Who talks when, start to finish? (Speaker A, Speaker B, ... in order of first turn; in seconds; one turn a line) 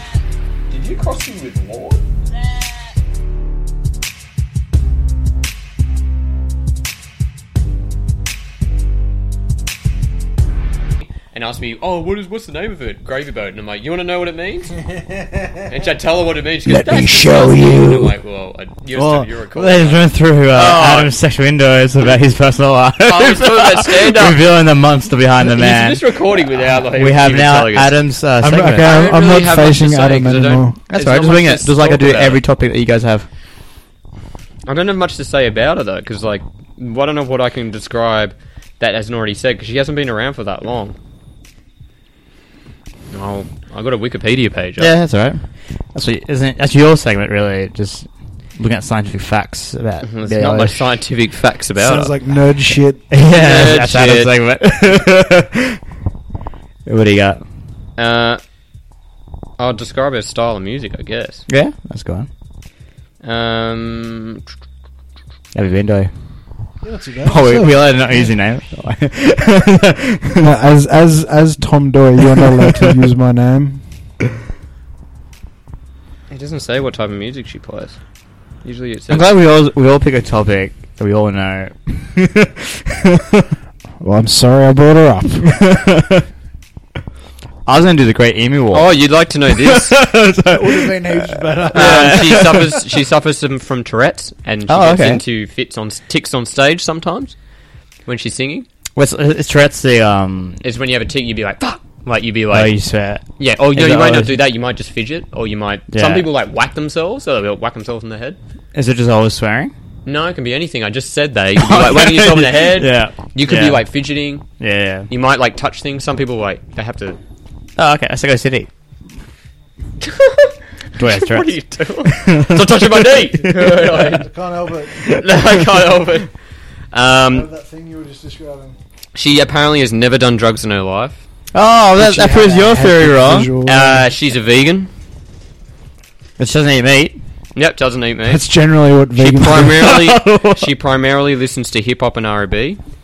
Speaker A: 0.7-2.1
Speaker A: 11.2-14.8
Speaker A: 15.7-21.1
Speaker B: 16.7-18.1
Speaker B: 18.9-26.0
Speaker A: 23.1-24.4
Speaker A: 25.5-27.9
Speaker B: 26.7-29.0
Speaker C: 28.4-30.8
Speaker A: 28.8-32.4
Speaker B: 30.9-33.3
Speaker A: 34.7-41.0
Speaker A: 43.1-44.9
Speaker B: 44.8-50.8
Speaker A: 50.0-52.1
Speaker C: 51.8-53.0
Speaker B: 53.1-55.8
Speaker A: 53.3-54.3
Speaker B: 56.9-57.4
Speaker A: 58.0-58.4
Speaker A: 59.6-61.4
Speaker B: 61.5-62.3
Speaker A: 63.2-64.4
Speaker B: 65.5-66.1
Speaker C: 66.8-68.0
Speaker B: 67.3-70.5
Speaker C: 70.4-73.8
Speaker B: 72.3-72.8
Speaker A: 76.3-78.0
Speaker A: 78.6-79.3
Speaker B: 79.1-83.5
Speaker C: 84.0-85.7
Speaker B: 85.5-86.2
Speaker B: 87.7-88.9
Speaker A: 88.7-90.0
Speaker B: 89.5-92.8
Speaker C: 90.5-92.7
Speaker A: 91.7-97.4
Speaker B: 94.7-95.2
Speaker A: 98.1-98.7
Speaker B: 99.0-100.6
Speaker A: 100.6-102.8
Speaker B: 102.5-104.4
Speaker A: 103.4-108.4
Speaker B: 105.9-106.3
Speaker B: 108.7-109.7
Speaker A: 110.0-114.5
Speaker B: 111.6-113.8
Speaker B: 114.6-115.1
Speaker A: 115.1-117.2
Speaker B: 117.8-118.7
Speaker A: 120.0-124.3
Speaker B: 121.0-124.0
Speaker C: 123.8-125.2
Speaker A: 125.0-126.3
Speaker A: 126.9-127.5
Speaker C: 127.3-128.8
Speaker A: 129.2-131.2
Speaker B: 131.5-133.5
Speaker C: 132.0-134.1
Speaker A: 133.7-134.9
Speaker B: 136.4-137.2
Speaker A: 137.6-138.5
Speaker C: 138.3-139.9
Speaker A: 139.2-142.8
Speaker B: 139.5-140.7